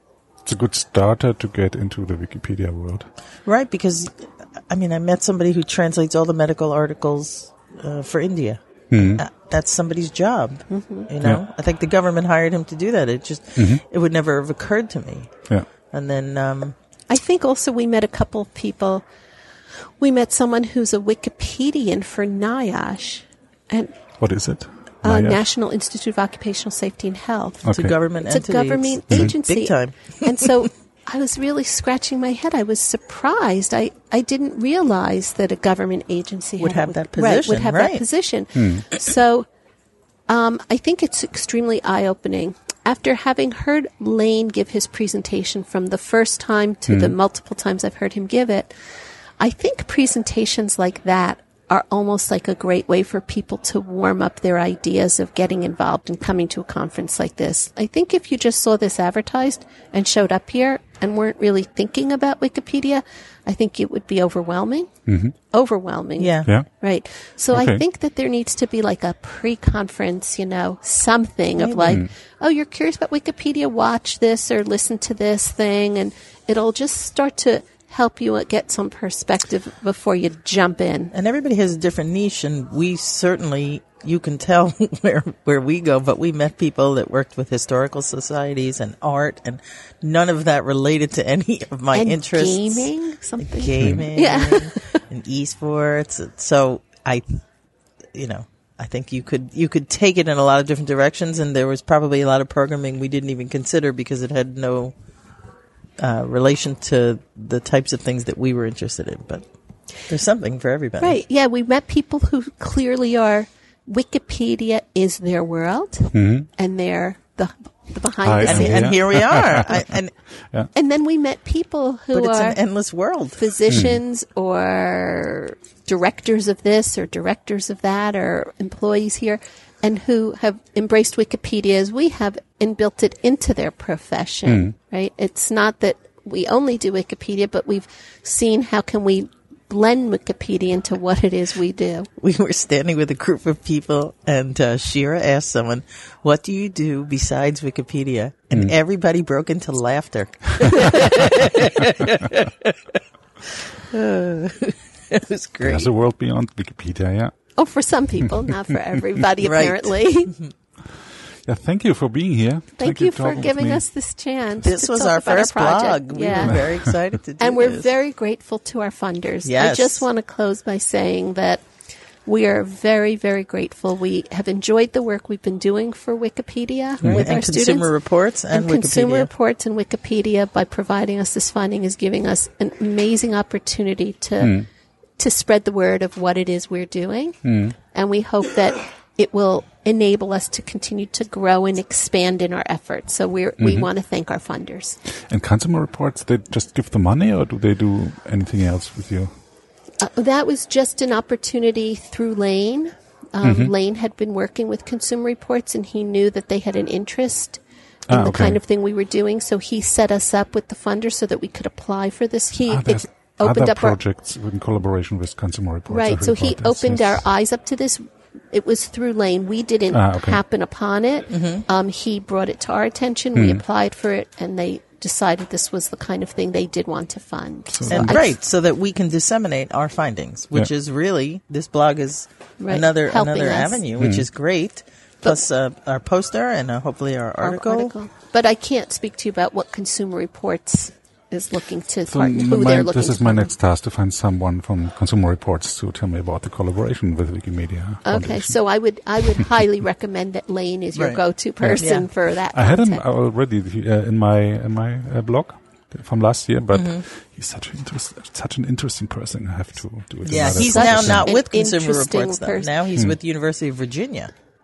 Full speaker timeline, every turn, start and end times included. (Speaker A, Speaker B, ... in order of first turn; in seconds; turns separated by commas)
Speaker A: 0.5-3.1, Speaker B: 3.5-16.8, Speaker A: 8.9-9.2, Speaker C: 10.7-11.1, Speaker A: 13.6-13.8, Speaker C: 17.1-19.1, Speaker C: 20.0-23.9, Speaker A: 24.2-25.4, Speaker C: 25.0-39.5, Speaker A: 27.6-28.0, Speaker B: 27.7-30.6, Speaker B: 36.6-38.0, Speaker A: 38.5-38.8, Speaker C: 40.3-48.7, Speaker A: 46.9-47.1, Speaker C: 49.4-64.9, Speaker A: 65.1-65.3, Speaker C: 65.5-81.1, Speaker B: 66.2-66.5, Speaker A: 67.5-67.8, Speaker B: 71.6-72.0, Speaker B: 81.1-97.4, Speaker C: 91.9-95.0, Speaker A: 93.8-94.0, Speaker B: 98.2-104.9, Speaker B: 106.0-109.5, Speaker B: 110.0-111.2, Speaker C: 111.0-119.0, Speaker A: 116.1-116.5, Speaker A: 118.2-120.0, Speaker B: 118.5-120.1, Speaker C: 120.7-122.6, Speaker B: 122.1-123.5, Speaker C: 123.4-142.1, Speaker A: 123.7-124.0, Speaker A: 134.5-134.7, Speaker B: 142.2-152.8, Speaker B: 153.5-155.9, Speaker A: 155.6-157.3, Speaker C: 157.6-160.3, Speaker B: 159.4-160.5, Speaker A: 160.9-163.8, Speaker C: 162.8-166.8, Speaker B: 164.6-167.9, Speaker C: 167.4-171.6, Speaker B: 169.5-170.0, Speaker C: 172.2-177.9, Speaker B: 177.0-179.3, Speaker C: 178.5-184.7, Speaker A: 184.4-184.7, Speaker C: 185.2-195.0, Speaker A: 187.4-187.8, Speaker A: 193.6-193.9, Speaker A: 195.1-199.3, Speaker C: 200.0-214.0, Speaker A: 203.4-203.7, Speaker A: 208.1-208.6, Speaker A: 212.7-217.3, Speaker C: 215.9-228.3, Speaker A: 219.9-220.4, Speaker B: 221.3-221.7, Speaker A: 223.3-223.6, Speaker A: 227.7-228.2, Speaker B: 227.9-237.9, Speaker C: 232.6-233.8, Speaker A: 234.0-234.3, Speaker C: 237.4-243.5, Speaker A: 242.1-248.6, Speaker C: 248.1-253.0, Speaker B: 250.9-251.2, Speaker A: 251.6-261.3, Speaker B: 251.8-252.1, Speaker B: 256.7-257.0, Speaker B: 260.3-264.3, Speaker C: 260.6-262.7